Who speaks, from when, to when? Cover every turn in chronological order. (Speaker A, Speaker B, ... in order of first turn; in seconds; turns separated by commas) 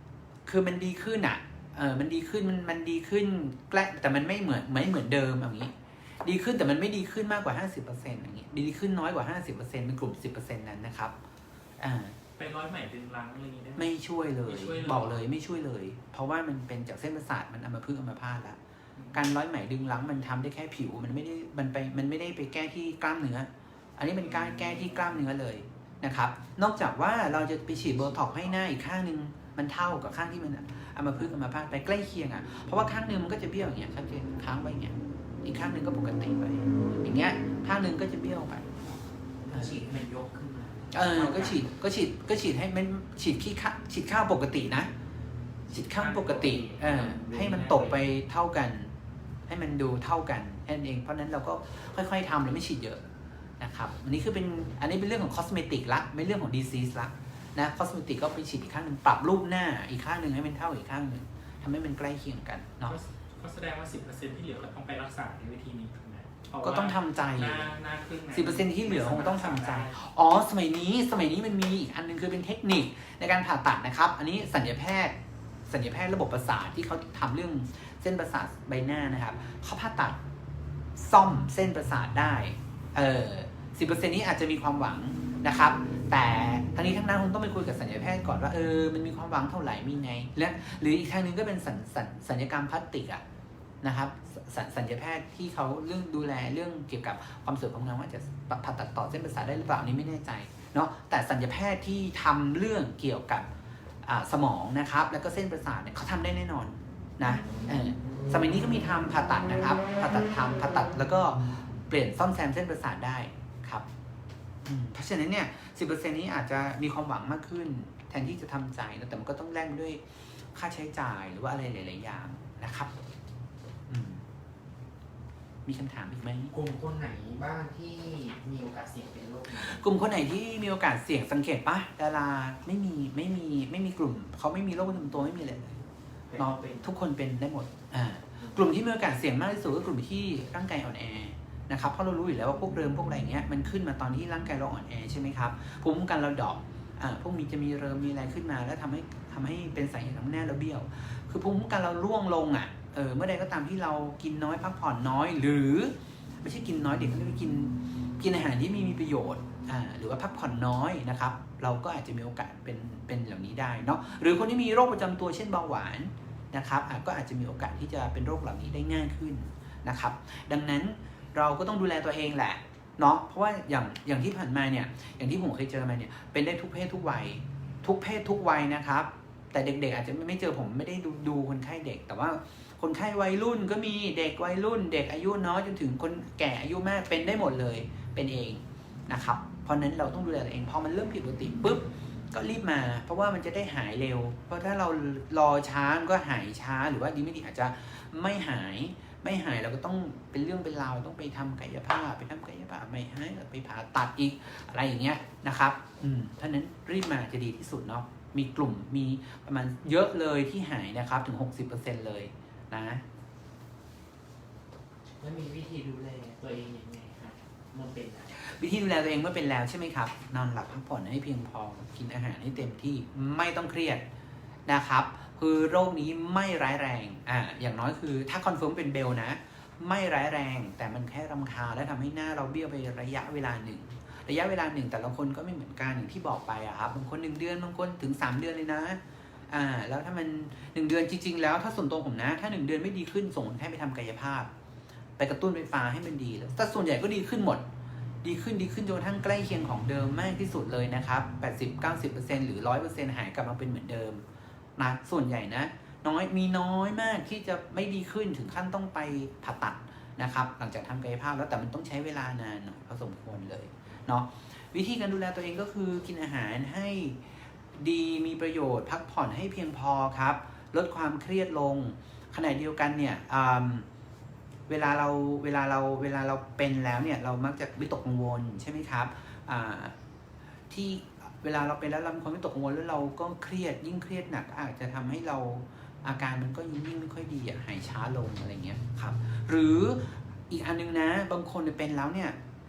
Speaker A: 0.5-11.2, Speaker A: 11.8-12.2, Speaker B: 12.4-13.9, Speaker A: 13.8-18.6, Speaker B: 14.5-15.2, Speaker B: 19.0-19.2, Speaker A: 19.1-38.7, Speaker C: 39.5-41.7, Speaker A: 39.5-39.8, Speaker A: 40.9-44.9, Speaker A: 45.7-48.9, Speaker C: 45.7-48.1, Speaker A: 49.5-53.0, Speaker A: 53.6-63.0, Speaker B: 62.9-70.0, Speaker A: 66.6-67.7, Speaker A: 68.3-75.2, Speaker A: 75.7-80.2, Speaker A: 81.0-93.2, Speaker A: 93.8-103.5, Speaker A: 104.0-113.9, Speaker A: 114.7-122.9, Speaker A: 123.9-124.2, Speaker A: 125.7-126.5, Speaker C: 126.5-130.0, Speaker A: 129.6-135.8, Speaker C: 136.3-136.9, Speaker A: 136.4-213.0, Speaker C: 215.2-218.4, Speaker A: 218.4-224.1, Speaker A: 224.7-244.5, Speaker A: 245.2-247.6, Speaker A: 248.2-254.2, Speaker A: 254.8-267.2, Speaker A: 267.8-273.9, Speaker A: 274.7-279.9, Speaker A: 280.7-292.4